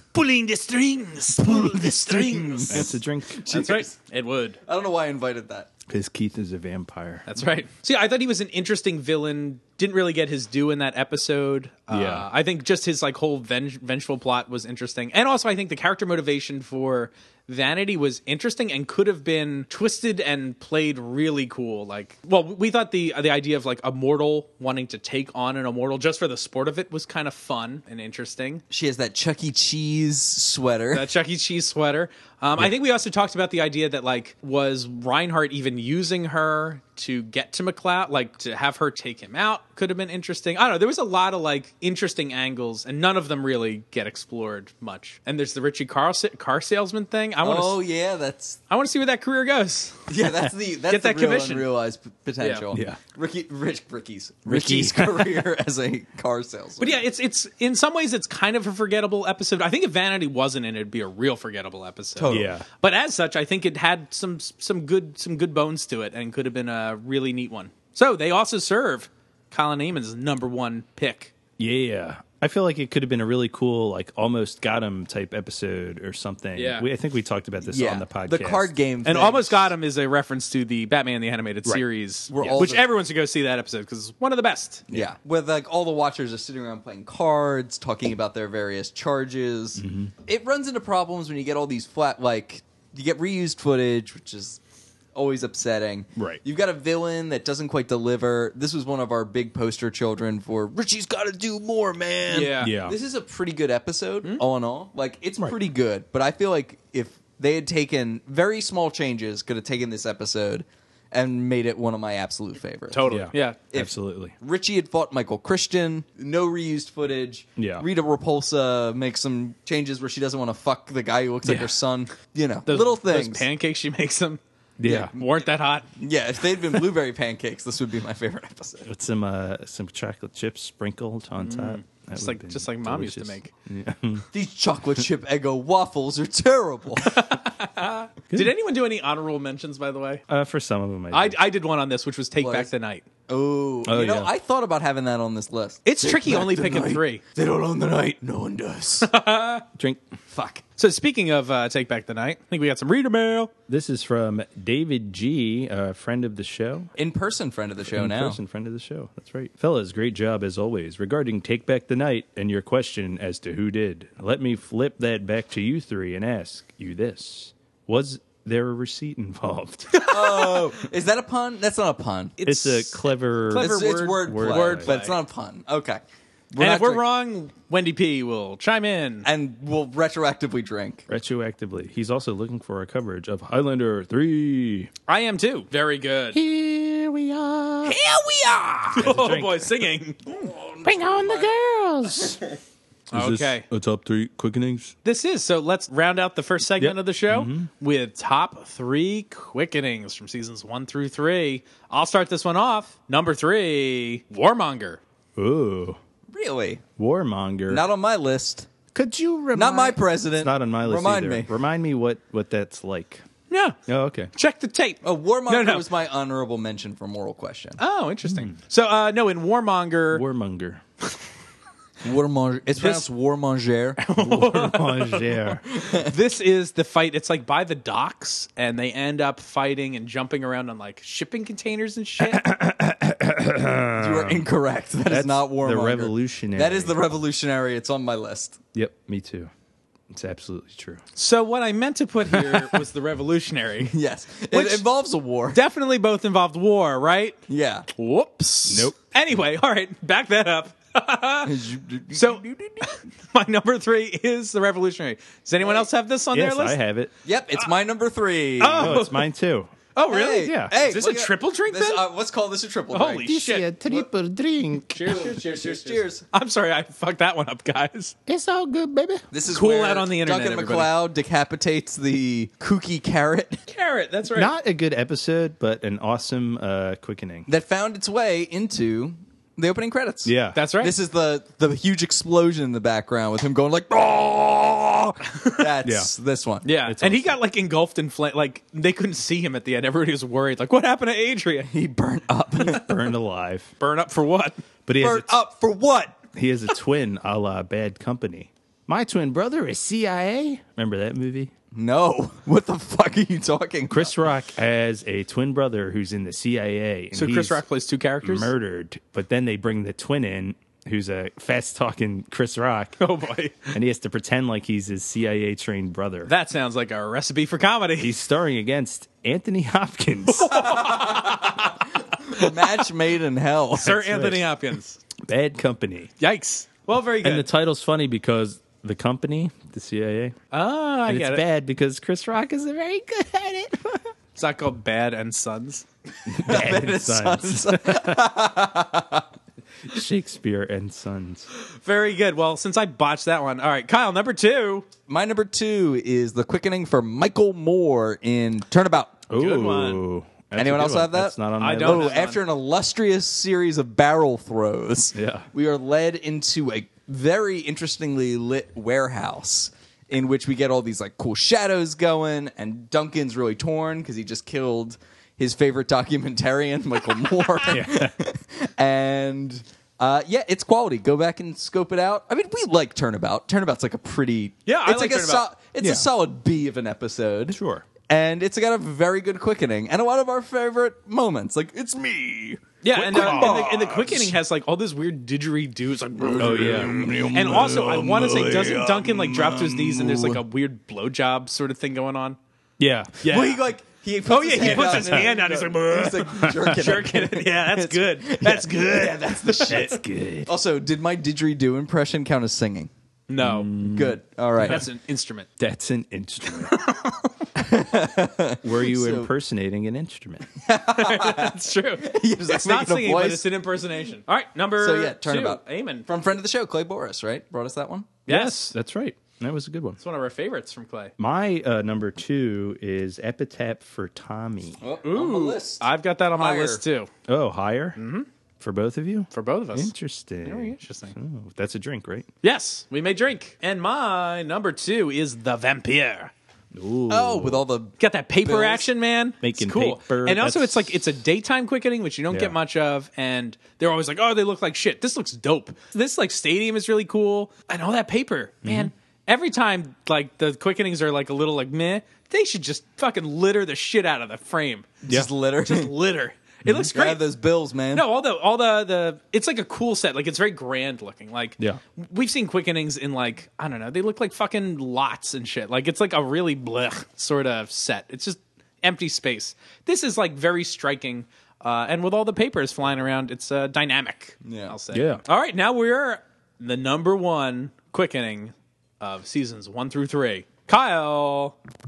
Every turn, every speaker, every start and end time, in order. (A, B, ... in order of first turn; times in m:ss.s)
0:00.1-0:02.9 A
0:01.4-0:03.9 B
0:02.7-0:03.5 C
0:03.5-0:04.6 A
0:04.6-0:05.7 B
0:05.9-0:07.3 C
0:07.3-0:28.6 A
0:11.9-0:12.3 C
0:28.7-0:31.1 B
0:30.9-0:47.8 A
0:47.4-0:48.6 B
0:48.7-0:50.1 A
0:50.1-0:57.0 B
0:50.9-0:51.7 A
0:52.4-0:52.7 A
0:52.7-0:53.0 C
0:54.5-0:55.5 C
0:56.8-1:11.3 A
1:02.2-1:02.6 B
1:02.3-1:02.7 C
1:11.6-1:18.7 C
1:16.6-1:16.9 A
1:17.6-1:19.7 B
1:19.0-1:24.8 A
1:22.3-1:22.9 B
1:22.4-1:22.7 C
1:24.9-1:34.6 B
1:29.8-1:30.1 C
1:35.2-1:53.2 B
1:42.3-1:42.8 A
1:42.6-1:43.0 C
1:52.9-1:53.6 A
1:53.1-1:54.3 C
1:53.7-2:03.5 B
1:57.6-1:57.9 C
2:01.4-2:01.7 C
2:02.7-2:05.9 A
2:04.8-2:05.1 C
2:06.0-2:08.9 B
2:08.8-2:14.3 C
2:11.4-2:13.5 A
2:14.3-2:17.2 B
2:17.0-2:20.2 A
2:20.3-2:21.4 C
2:21.1-2:23.1 A
2:22.4-2:22.7 B
2:23.3-2:29.1 B
2:23.8-2:24.3 C
2:25.8-2:27.2 A
2:29.0-2:29.7 A
2:29.8-2:30.0 C
2:30.3-2:30.6 B
2:30.8-2:33.5 A
2:33.7-2:36.9 C
2:37.0-2:38.4 B
2:37.9-2:49.9 C
2:49.9-2:50.7 A
2:50.0-2:52.4 B
2:52.4-2:55.2 A
2:52.4-2:54.9 C
2:53.5-2:56.0 B
2:56.5-2:57.0 B
2:56.6-2:59.3 A
2:59.2-3:01.1 B
3:01.1-3:04.9 C
3:05.1-3:06.4 A
3:06.3-3:08.0 C
3:07.8-3:09.1 B
3:08.9-3:10.5 A
3:09.0-3:09.9 C
3:10.3-3:11.5 B
3:10.8-3:12.4 C
3:12.1-3:12.4 B
3:13.1-3:13.6 A
3:13.1-3:14.9 C
3:15.0-3:25.0 A
3:16.8-3:17.7 C
3:25.4-3:26.0 C
3:26.3-3:26.8 B
3:27.0-3:27.8 C
3:27.7-3:28.7 B
3:28.9-3:33.2 C
3:29.5-3:31.5 B
3:33.5-3:33.8 A
3:33.9-3:34.3 C
3:34.4-3:35.9 A
3:35.0-3:37.8 B
3:37.8-3:40.2 A
3:38.3-3:38.5 C
3:40.1-3:40.8 C
3:42.0-3:44.1 B
3:42.8-3:43.0 A
3:44.0-3:52.4 A
3:44.2-3:45.6 C
3:45.7-3:46.1 B
3:52.2-3:54.5 C
3:54.0-3:58.6 B
3:55.1-3:57.0 C
3:58.7-3:59.5 C
4:00.1-4:01.0 C
4:01.2-4:03.9 A
4:03.9-4:05.6 B
4:04.5-4:04.8 A
4:05.5-4:07.4 A
4:07.5-4:07.9 B
4:08.0-4:11.6 A
4:08.7-4:09.0 C
4:11.4-4:13.0 B
4:12.1-4:16.8 A
4:15.6-4:15.9 B
4:16.3-4:17.1 C
4:17.2-4:19.0 B
4:18.6-4:19.3 A
4:18.7-4:19.7 C
4:20.0-4:22.0 A
4:20.1-4:23.4 B
4:20.4-4:20.7 C
4:22.9-4:23.7 A
4:23.2-4:25.3 C
4:24.9-4:28.2 A
4:25.1-4:26.2 B
4:28.3-4:29.2 C
4:29.3-4:33.6 B
4:29.5-4:30.9 A
4:33.7-4:34.5 A
4:34.3-4:37.5 C
4:37.5-4:46.7 B
4:40.2-4:40.6 C
4:40.5-4:41.0 A
4:45.3-4:45.6 A
4:45.8-4:46.1 C
4:46.6-4:51.7 A
4:46.8-4:47.4 C
4:51.7-4:53.0 B
4:52.6-4:53.7 C
4:53.8-4:54.6 A
4:54.9-4:55.3 C
4:55.0-4:56.2 B
4:56.3-5:01.5 C
5:01.7-5:04.2 B
5:03.9-5:07.6 C
5:07.1-5:08.5 A
5:08.2-5:13.0 C
5:13.0-5:13.7 A
5:13.7-5:16.3 C
5:16.3-5:18.2 A
5:18.0-5:20.7 C
5:20.3-5:22.8 A
5:20.5-5:24.1 B
5:23.8-5:25.0 A
5:24.0-5:24.5 C
5:25.2-5:26.1 C
5:26.2-5:27.5 A
5:27.2-5:30.4 C
5:30.5-5:31.4 A
5:31.1-5:34.1 C
5:34.4-5:35.9 A
5:36.3-5:38.3 C
5:36.4-5:39.3 B
5:39.8-5:41.5 C
5:41.5-5:44.9 A
5:45.1-5:49.2 B
5:49.3-5:52.2 C
5:49.3-5:50.0 A
5:50.6-6:17.6 B
5:51.6-5:52.4 A
5:55.2-5:55.5 C
6:07.7-6:08.1 C
6:14.7-6:15.4 A
6:15.8-6:16.1 C
6:17.5-6:17.9 C
6:18.1-6:24.3 B
6:22.8-6:32.4 A
6:23.0-6:23.8 C
6:26.2-6:30.4 B
6:26.4-6:28.7 C
6:32.8-6:33.3 C
6:33.2-6:33.6 A
6:33.3-6:42.9 B
6:34.3-6:39.9 A
6:34.6-6:35.3 C
6:36.3-6:36.9 C
6:39.6-6:40.5 C
6:43.3-6:43.7 A
6:43.4-6:44.8 C
6:43.8-6:44.8 B
6:44.6-6:45.5 A
6:45.6-6:46.8 C
6:46.5-6:47.3 A
6:47.6-6:49.3 B
6:48.6-6:50.5 C
6:50.6-6:53.6 B
6:50.9-6:56.1 A
6:54.8-6:58.2 B
6:58.3-6:58.8 A
6:58.3-7:00.0 C
7:00.0-7:01.1 A
7:01.2-7:04.8 C
7:04.8-7:06.8 B
7:05.0-7:07.1 A
7:07.3-7:08.0 C
7:08.0-7:08.3 A
7:08.6-7:12.3 C
7:09.3-7:09.9 A
7:10.4-7:11.2 A
7:12.4-7:16.3 A
7:16.7-7:17.6 C
7:17.1-7:18.9 B
7:18.0-7:35.0 A
7:19.4-7:21.1 C
7:28.6-7:28.9 C
7:35.0-7:35.9 B
7:35.6-7:37.2 A
7:36.6-7:36.9 C
7:36.9-7:38.1 B
7:37.9-8:01.6 A
7:54.4-7:54.8 B
7:54.9-7:55.2 C